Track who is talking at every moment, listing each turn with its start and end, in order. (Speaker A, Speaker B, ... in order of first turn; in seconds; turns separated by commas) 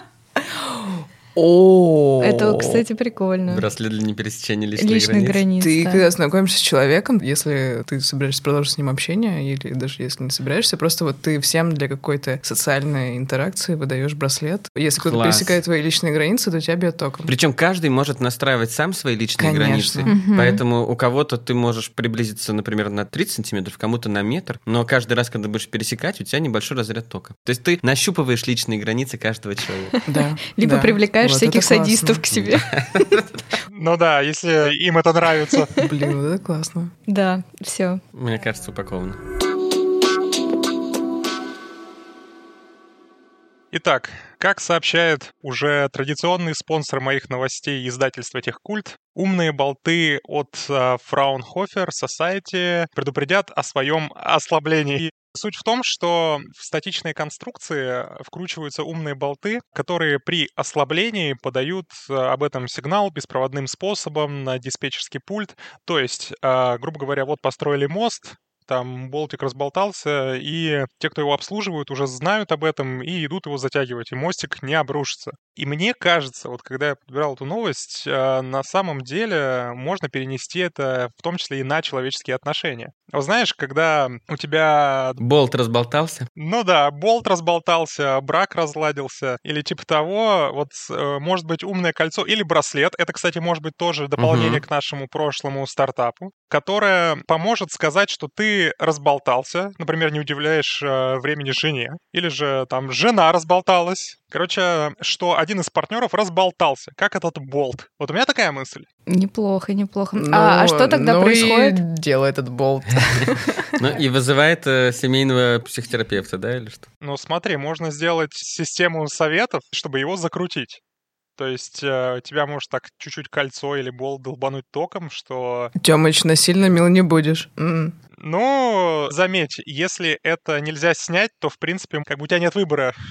Speaker A: 0.4-2.8, Speaker B: 2.2-3.7, Speaker C: 3.5-5.4, Speaker B: 4.8-6.0, Speaker A: 5.6-17.3, Speaker C: 15.0-15.6, Speaker C: 17.3-29.9, Speaker A: 19.4-20.1, Speaker B: 20.1-20.6, Speaker B: 29.9-32.7, Speaker A: 30.1-32.2, Speaker C: 32.3-33.4, Speaker D: 33.7-35.7, Speaker B: 35.5-35.8, Speaker A: 35.8-36.9, Speaker B: 37.1-38.0, Speaker C: 38.1-39.2, Speaker D: 43.7-85.2, Speaker C: 85.2-86.3, Speaker D: 86.4-108.8, Speaker C: 94.2-94.6, Speaker B: 109.1-111.8, Speaker A: 110.1-113.8, Speaker C: 113.2-116.8, Speaker D: 117.0-120.8, Speaker D: 121.4-125.7, Speaker A: 125.8-127.9, Speaker D: 128.2-132.9